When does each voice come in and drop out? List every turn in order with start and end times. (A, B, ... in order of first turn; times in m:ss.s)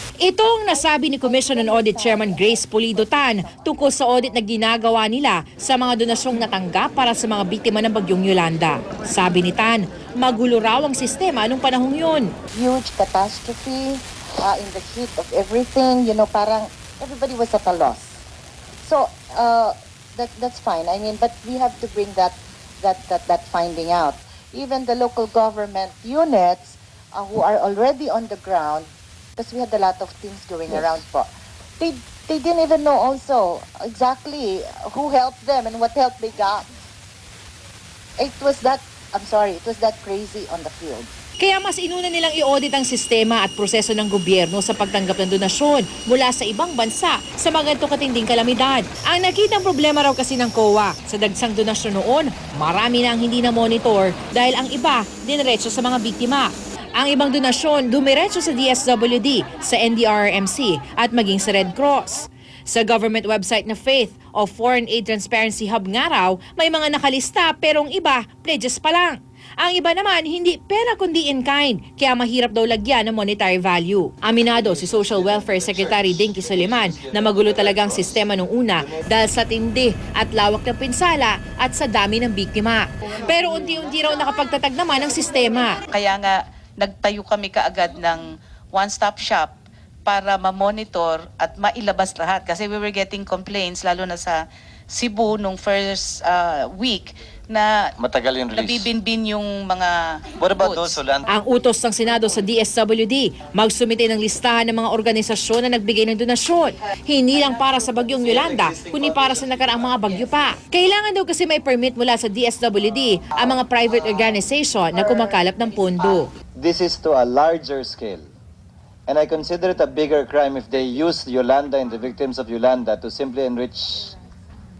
0:00.2-0:12.3 A
0:00.7-0:03.9 B
0:12.5-0:18.2 B
0:18.8-0:36.6 B
0:30.7-0:31.0 C
0:38.2-0:41.1 B
0:41.4-1:25.8 A
1:14.5-1:19.2 C
1:25.9-1:29.5 D
1:30.0-1:34.4 D
1:34.9-1:37.7 D
1:38.0-1:38.9 C
1:38.5-1:40.0 D
1:40.4-1:41.3 C
1:40.6-1:41.0 D
1:41.3-1:56.3 A
1:48.2-1:49.8 C
1:56.6-1:58.3 C
1:59.1-2:04.1 C